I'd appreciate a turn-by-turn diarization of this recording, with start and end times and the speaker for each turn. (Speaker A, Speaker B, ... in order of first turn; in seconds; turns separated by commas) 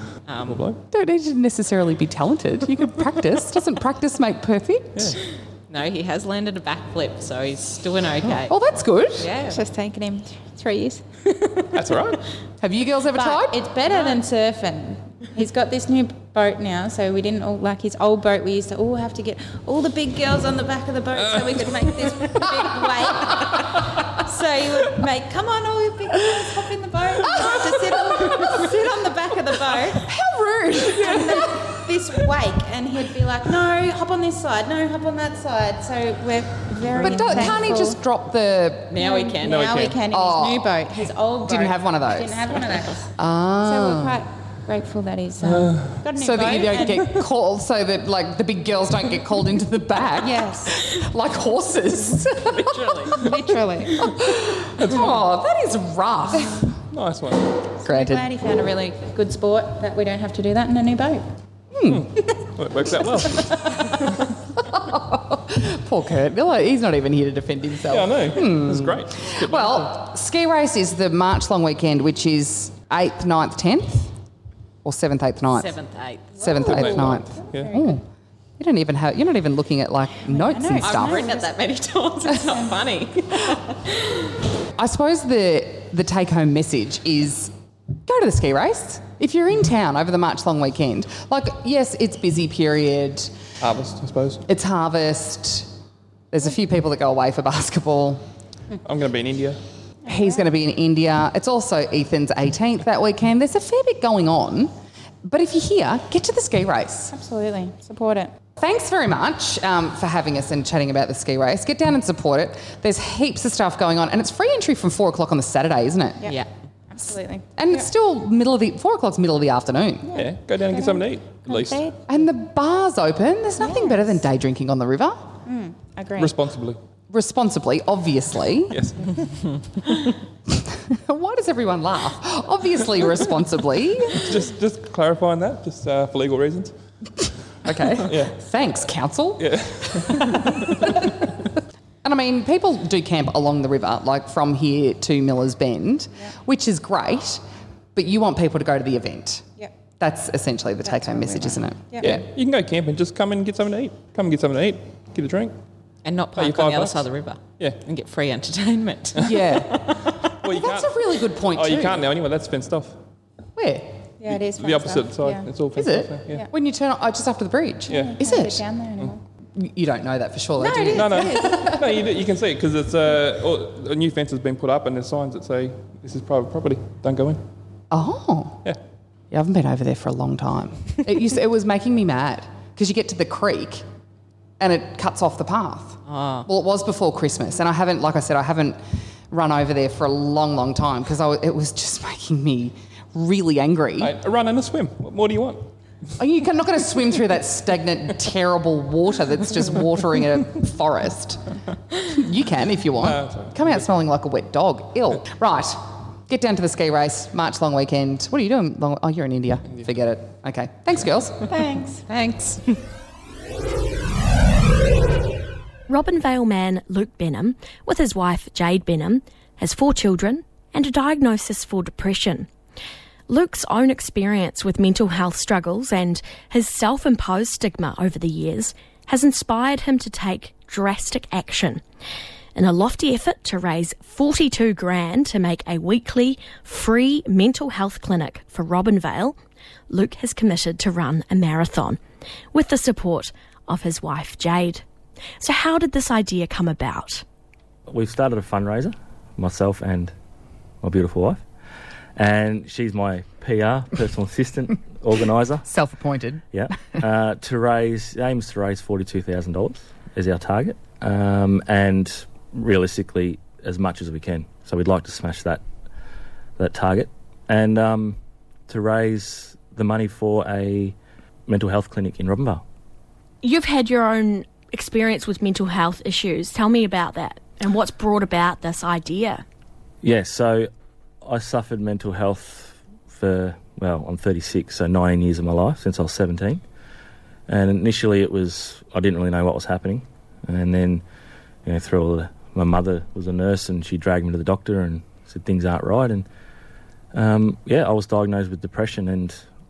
Speaker A: 0.3-0.7, Speaker B: 0.5-0.8, Speaker C: 0.9-5.2, Speaker B: 5.0-5.2, Speaker A: 5.7-8.6, Speaker C: 8.5-9.3, Speaker A: 9.2-9.6, Speaker D: 9.5-11.0, Speaker B: 11.7-12.2, Speaker C: 12.6-13.7, Speaker D: 13.1-30.1, Speaker B: 21.2-22.3, Speaker C: 27.2-28.8, Speaker C: 29.9-31.6, Speaker D: 30.9-38.0, Speaker C: 37.0-39.0, Speaker A: 38.9-39.9, Speaker D: 39.0-43.1, Speaker B: 39.4-40.0, Speaker C: 40.0-40.7, Speaker C: 41.5-42.5, Speaker C: 43.1-44.2, Speaker D: 43.6-47.1, Speaker B: 45.4-46.1, Speaker C: 46.2-53.4, Speaker D: 50.2-50.8, Speaker A: 52.5-53.2, Speaker D: 53.2-54.0, Speaker C: 54.0-56.7, Speaker B: 54.8-55.2, Speaker B: 56.9-57.6, Speaker D: 57.8-61.2, Speaker C: 57.8-58.3, Speaker C: 61.7-62.1, Speaker B: 61.9-64.1, Speaker C: 63.4-64.0, Speaker C: 64.6-74.1, Speaker B: 67.8-70.0, Speaker C: 74.8-75.7, Speaker A: 75.5-76.5, Speaker D: 76.4-77.9, Speaker C: 76.4-78.0, Speaker B: 76.6-77.8, Speaker C: 78.6-81.2, Speaker D: 80.3-81.5, Speaker A: 80.8-83.9, Speaker D: 82.3-82.8, Speaker C: 84.8-87.5, Speaker C: 88.0-93.3, Speaker B: 93.6-94.4, Speaker C: 94.5-95.7, Speaker C: 96.3-98.2, Speaker B: 98.8-99.6, Speaker C: 100.1-104.7, Speaker D: 100.1-100.5, Speaker C: 105.2-107.1, Speaker D: 107.1-108.3, Speaker C: 108.6-116.2, Speaker D: 116.2-117.9, Speaker C: 117.6-120.2, Speaker D: 120.1-122.0, Speaker B: 120.1-121.9, Speaker C: 122.1-125.3, Speaker D: 123.6-124.2, Speaker D: 125.5-126.3, Speaker B: 126.2-126.8, Speaker C: 127.1-128.8, Speaker B: 128.7-129.3, Speaker C: 130.6-134.3, Speaker B: 134.1-136.7, Speaker C: 137.7-141.1, Speaker B: 138.0-138.4, Speaker B: 139.4-141.1, Speaker C: 142.0-147.4, Speaker C: 147.9-149.5, Speaker C: 150.0-152.2, Speaker D: 150.8-152.1, Speaker B: 152.0-155.5, Speaker A: 156.1-160.3, Speaker B: 156.4-157.1, Speaker C: 159.2-159.9, Speaker B: 160.4-163.0, Speaker C: 160.4-162.1, Speaker C: 163.6-164.0, Speaker D: 164.2-165.5, Speaker B: 164.3-166.5, Speaker C: 165.8-168.6, Speaker B: 167.9-168.2, Speaker D: 167.9-169.2, Speaker C: 169.6-172.0, Speaker D: 170.6-171.7, Speaker B: 170.9-177.4, Speaker C: 177.9-178.6, Speaker C: 179.3-183.8, Speaker C: 184.6-194.2, Speaker A: 186.1-186.5, Speaker B: 194.0-195.7, Speaker C: 196.2-201.4, Speaker C: 202.1-211.5, Speaker B: 203.0-203.8, Speaker D: 211.5-212.1, Speaker A: 212.1-212.6, Speaker E: 215.9-222.5, Speaker E: 223.3-231.8, Speaker E: 232.6-239.4, Speaker E: 239.9-242.0, Speaker E: 242.5-244.8, Speaker E: 245.4-247.2, Speaker F: 247.9-250.1, Speaker F: 250.8-251.4, Speaker F: 252.2-255.7, Speaker C: 255.7-256.4, Speaker F: 256.5-265.6, Speaker F: 266.6-270.9, Speaker F: 271.5-272.6, Speaker E: 273.4-279.4, Speaker F: 280.0-280.7, Speaker F: 281.2-286.6, Speaker F: 287.5-291.0, Speaker F: 291.7-296.3, Speaker F: 297.1-299.4